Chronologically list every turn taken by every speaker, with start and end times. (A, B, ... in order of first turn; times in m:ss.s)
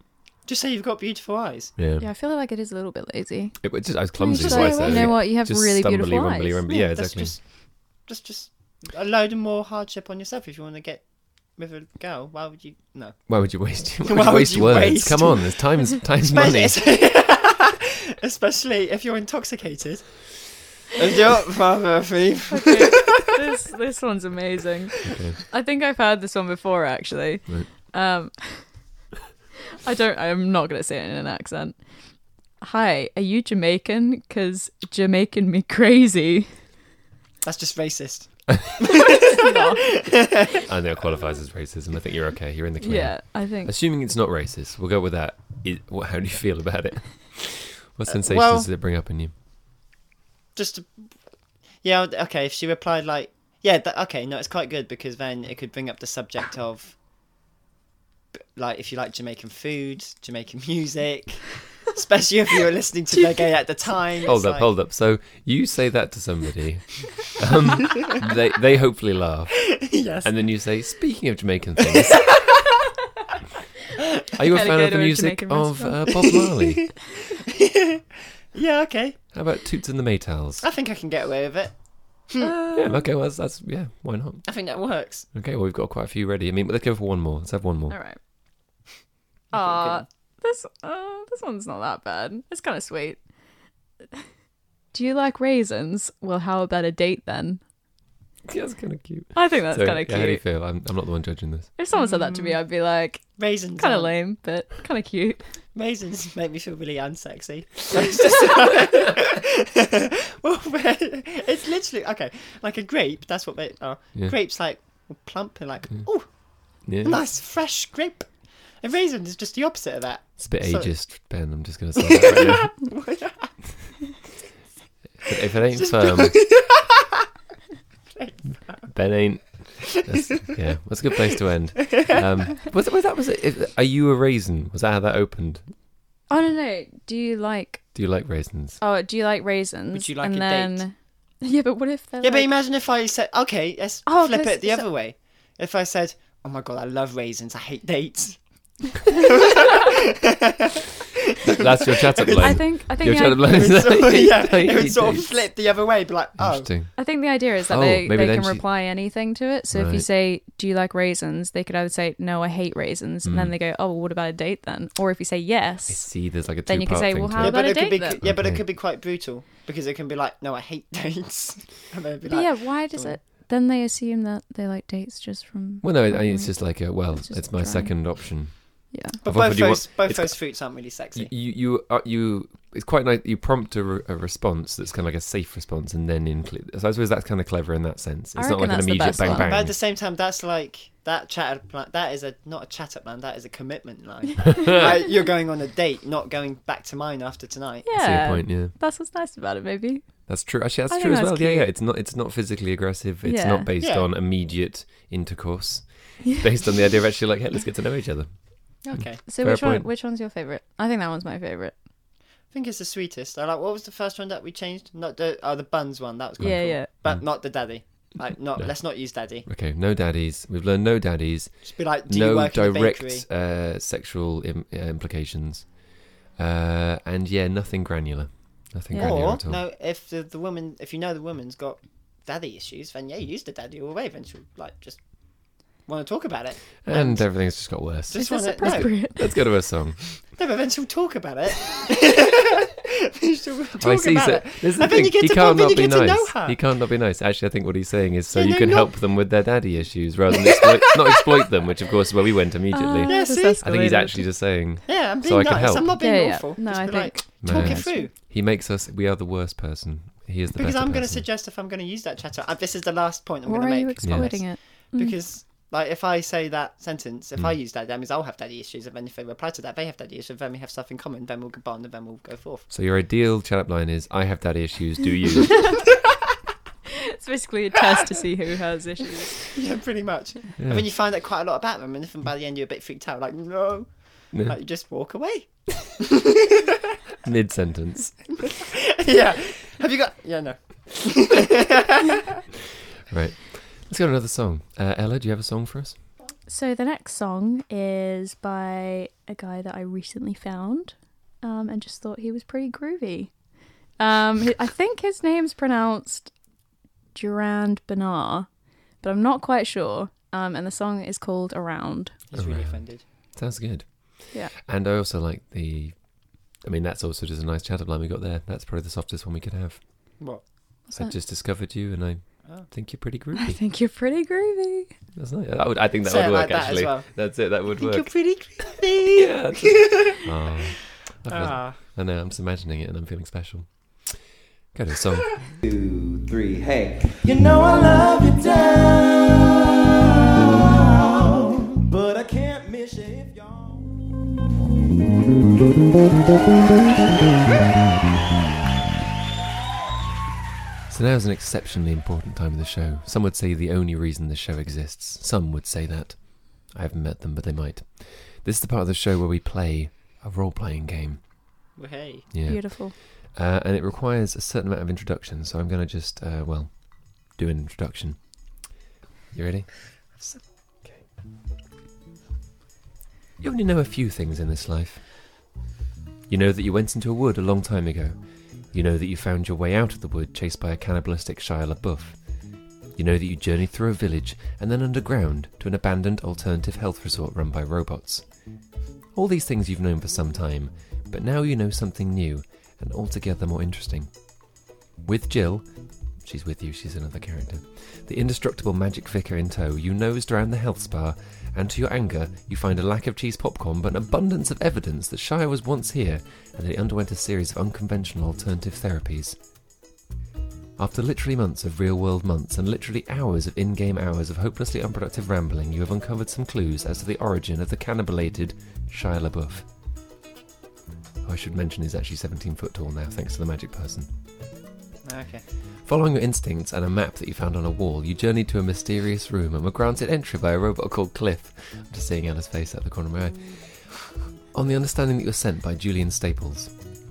0:00.5-0:01.7 A
0:01.8-0:02.1 B
0:02.0-0:06.6 C
0:03.6-0:07.3 B
0:04.3-0:05.1 A
0:06.7-0:13.2 A
0:13.3-0:16.8 B
0:14.0-0:20.3 A
0:20.9-0:23.3 A
0:22.5-0:28.8 C
0:25.0-0:25.4 B
0:29.8-0:31.8 C
0:32.6-0:36.5 C
0:37.4-0:40.6 A
0:39.0-0:40.0 C
0:40.6-0:49.3 B
0:42.8-0:43.7 C
0:48.1-0:48.7 A
0:50.6-0:50.9 A
0:51.8-0:57.0 A
0:58.3-1:04.7 A
1:04.2-1:12.4 B
1:09.7-1:10.4 A
1:11.9-1:12.8 A
1:14.3-1:17.0 B
1:14.4-1:16.1 C
1:16.2-1:16.7 A
1:17.5-1:19.2 A
1:19.3-1:20.7 B
1:20.6-1:22.6 A
1:22.4-1:23.0 C
1:22.7-1:24.5 B
1:24.5-1:25.3 A
1:25.3-1:28.0 B
1:27.9-1:28.2 C
1:29.5-1:30.0 A
1:29.5-1:33.2 C
1:34.9-1:37.6 C
1:38.5-1:41.7 B
1:39.3-1:40.4 C
1:41.8-1:45.4 C
1:41.9-1:42.6 A
1:43.4-1:44.1 A
1:45.8-2:01.0 A
1:56.8-1:57.2 B
2:00.4-2:02.8 B
2:02.0-2:03.6 A
2:05.2-2:06.4 B
2:05.8-2:07.2 A
2:08.1-2:08.9 A
2:08.9-2:15.7 B
2:10.0-2:10.5 A
2:11.8-2:12.2 A
2:16.3-2:17.8 C
2:17.9-2:18.8 B
2:18.8-2:22.5 C
2:19.9-2:20.8 A
2:22.2-2:28.4 A
2:24.1-2:24.9 C
2:29.1-2:36.7 A
2:31.4-2:35.4 B
2:32.4-2:33.6 C
2:36.4-2:37.0 B
2:37.0-2:48.2 C
2:37.6-2:38.6 B
2:39.7-2:40.1 B
2:43.2-2:43.5 B
2:45.9-2:47.6 B
2:47.4-2:53.2 A
2:48.2-2:48.6 B
2:52.3-2:58.2 C
2:55.8-3:00.4 B
2:58.9-2:59.2 C
2:59.2-3:01.3 A
3:01.2-3:09.8 B
3:08.4-3:09.5 C
3:09.4-3:17.9 A
3:14.6-3:14.9 B
3:17.9-3:20.3 C
3:17.9-3:18.7 B
3:20.3-3:29.9 B
3:20.9-3:21.7 C
3:23.2-3:23.7 C
3:23.8-3:24.1 A
3:28.8-3:29.2 A
3:29.3-3:31.8 C
3:32.5-3:39.5 A
3:36.4-3:36.9 C
3:39.4-3:49.6 B
3:41.6-3:43.3 A
3:48.9-3:49.2 C
3:49.0-3:59.2 A
3:56.8-4:00.1 B
3:58.2-3:59.3 C
4:00.2-4:06.6 A
4:03.8-4:15.9 B
4:08.3-4:08.9 A
4:10.4-4:11.5 A
4:12.7-4:14.3 C
4:13.0-4:13.6 A
4:14.9-4:18.1 A
4:15.9-4:18.1 C
4:17.4-4:21.2 B
4:20.6-4:32.7 A
4:23.5-4:25.2 C
4:24.0-4:24.3 B
4:32.7-4:35.8 B
4:37.1-4:39.4 C
4:39.4-4:46.8 A
4:40.6-4:40.8 B
4:47.2-4:48.3 B
4:48.4-4:52.4 A
4:53.1-4:56.0 B
4:56.5-5:03.4 C
5:04.0-5:06.3 C
5:07.1-5:12.1 C
5:12.3-5:13.0 A
5:12.4-5:19.8 B
5:20.9-5:21.1 C
5:20.9-5:23.6 B
5:23.4-5:24.9 C
5:25.1-5:28.1 B
5:26.0-5:30.2 A
5:29.1-5:35.4 B
5:31.3-5:31.8 A
5:35.6-5:39.6 D
5:40.9-5:43.9 D
5:50.9-6:01.2 B
6:01.8-6:02.3 A
6:02.3-6:08.2 B
6:02.5-6:03.0 C
6:09.3-6:09.8 B
6:10.1-6:10.8 A
6:13.4-6:15.1 B
6:16.3-6:28.5 B
6:29.1-6:34.1 B
6:35.0-6:49.4 B
6:50.8-6:59.7 B
7:01.2-7:04.1 B
7:05.0-7:05.4 A
7:05.8-7:16.7 B